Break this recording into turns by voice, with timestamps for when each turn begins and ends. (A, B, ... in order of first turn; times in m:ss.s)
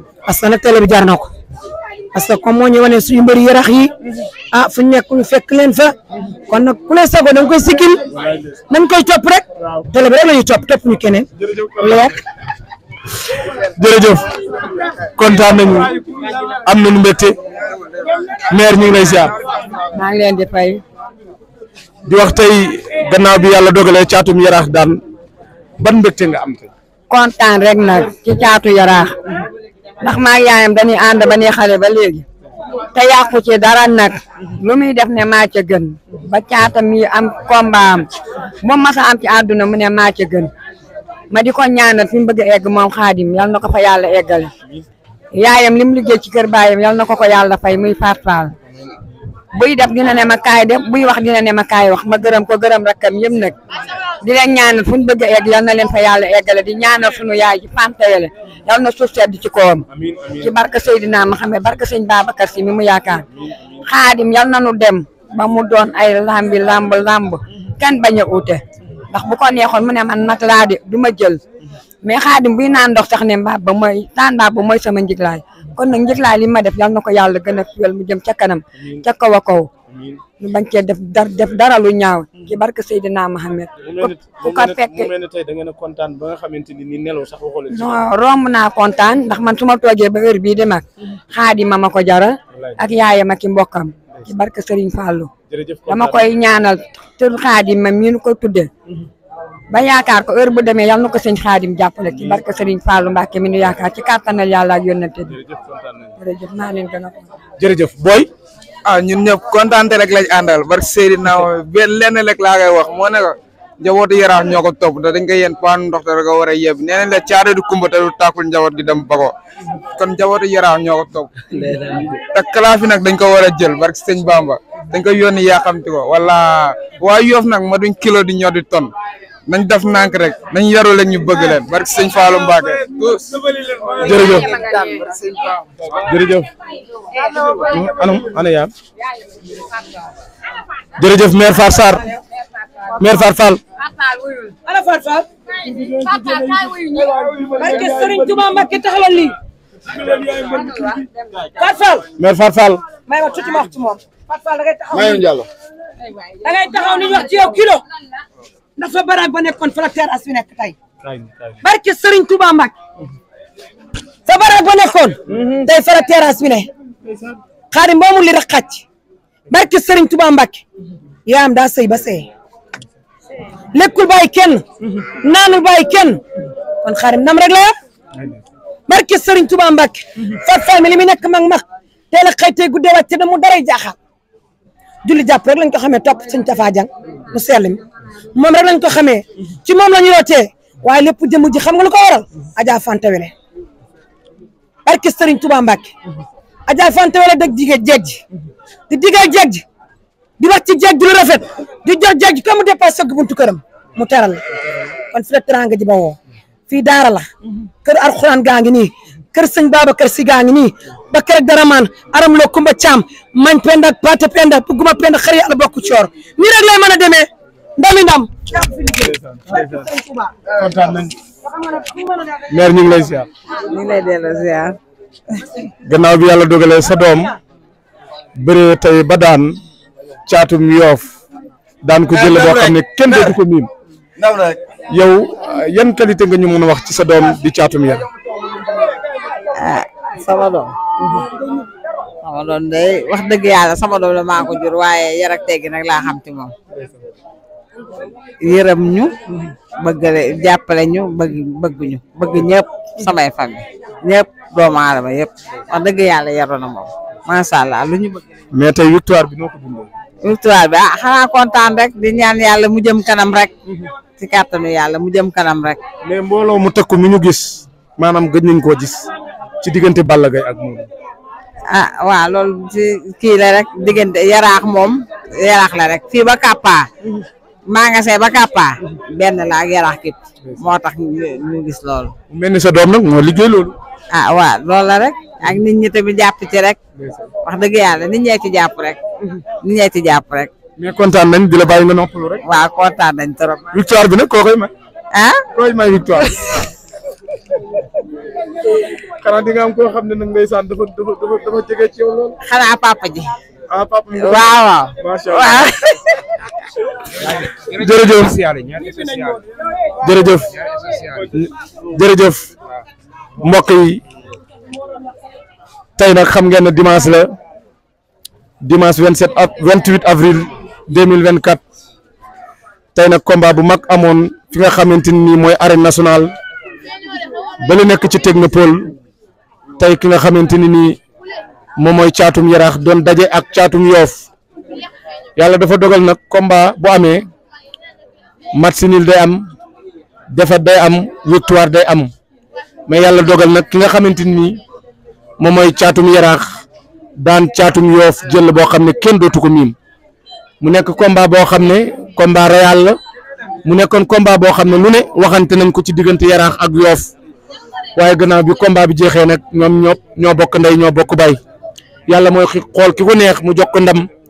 0:00.2-0:01.3 A
0:02.1-0:03.9 A
0:04.5-0:05.9 A
0:06.5-0:08.0 A
0:08.7-0:11.3 A
0:11.8-0:12.2 A
0:13.8-0:14.3 B
0:15.2-0:16.0 B
0:16.6-0:17.3 B
0:18.5-0:19.3 B
0:19.9-0:20.8 C
0:22.1-0:25.0 B
0:25.8-0:26.7 B
0:27.1-0:29.1 C
0:30.0-0:32.2 C
0:32.9-0:38.0 C
0:38.6-0:40.5 C
0:41.3-0:44.5 C
0:45.3-0:48.5 C
0:49.5-0:53.6 C
0:54.2-0:59.8 C
0:59.9-1:00.5 B
1:00.4-1:03.2 C
1:03.8-1:11.4 C
1:12.0-1:19.7 C
1:19.9-1:20.2 B
1:20.4-1:25.1 C
1:23.8-1:27.9 B
1:27.7-1:35.3 C
1:35.5-1:36.2 B
1:35.9-1:38.7 C
1:39.7-1:45.3 C
1:45.3-1:46.1 B
1:46.2-1:47.3 C
1:47.6-1:48.3 B
1:48.8-1:59.3 D
2:00.0-2:08.9 D
2:09.5-2:15.6 D
2:14.0-2:14.6 B
2:16.1-2:16.5 B
2:17.7-2:18.7 B
2:21.0-2:22.0 B
2:23.0-2:23.6 B
2:24.6-2:25.2 A
2:26.1-2:27.1 C
2:27.6-2:29.4 A
2:31.6-2:32.0 A
2:32.2-2:32.8 B
2:33.0-2:35.3 A
2:35.0-2:35.4 D
2:36.4-2:37.8 A
2:38.8-2:40.8 A
2:41.0-2:41.3 B
2:41.6-2:42.7 A
2:44.2-2:46.7 A
2:47.7-2:48.8 A
2:49.5-2:50.6 A
2:51.2-2:52.3 A
2:53.7-2:54.6 A
2:55.2-2:56.2 A
2:56.8-2:57.7 A
2:58.9-3:04.0 A
3:05.0-3:07.8 A
3:08.3-3:13.3 A
3:14.8-3:15.9 A
3:16.6-3:18.2 A
3:18.9-3:19.6 A
3:20.4-3:24.4 A
3:25.1-3:26.2 A
3:26.7-3:27.3 A
3:27.8-3:40.3 A
3:39.0-3:39.8 B
3:40.6-3:41.1 B
3:41.6-3:42.3 A
3:42.5-3:43.3 B
3:43.7-3:44.8 E
3:45.8-3:47.3 B
3:48.4-3:49.6 B
3:50.2-3:51.1 B
3:51.8-3:53.7 B
3:52.1-3:52.7 D
3:54.2-3:54.5 D
3:54.9-3:58.0 B
3:59.6-4:00.7 E
4:02.2-4:06.5 E
4:08.4-4:09.2 E
4:09.8-4:18.2 E
4:18.5-4:19.9 B
4:20.2-4:23.5 E
4:24.2-4:25.8 E
4:26.0-4:29.1 B
4:29.6-4:30.9 B
4:31.7-4:36.9 E
4:37.7-4:42.1 E
4:42.3-4:43.8 B
4:44.1-4:46.8 E
4:47.0-4:47.3 B
4:47.4-4:49.0 E
4:49.6-4:50.5 E
4:50.8-4:52.4 B
4:52.4-4:53.6 E
4:53.7-4:54.7 B
4:55.1-4:55.4 E
4:55.5-4:56.6 B
4:59.2-5:02.4 B
5:02.4-5:03.3 E
5:03.7-5:04.5 B
5:04.1-5:06.1 E
5:05.0-5:05.6 B
5:07.7-5:09.4 D
5:07.7-5:08.4 B
5:10.0-5:10.5 B
5:10.6-5:11.2 D
5:11.3-5:12.5 B
5:13.4-5:14.0 B
5:16.0-5:17.3 B
5:18.6-5:21.6 B
5:22.9-5:26.3 B
5:27.6-5:28.9 B
5:29.8-5:31.0 B
5:31.8-5:34.3 B
5:35.4-5:37.2 B
5:38.5-5:39.5 B
5:40.3-5:42.1 B
5:42.9-5:44.6 B
5:45.4-5:46.4 B
5:47.2-5:49.7 B
5:50.6-5:53.0 B
5:53.6-5:57.1 B
5:58.0-6:01.4 B
6:02.1-6:04.0 B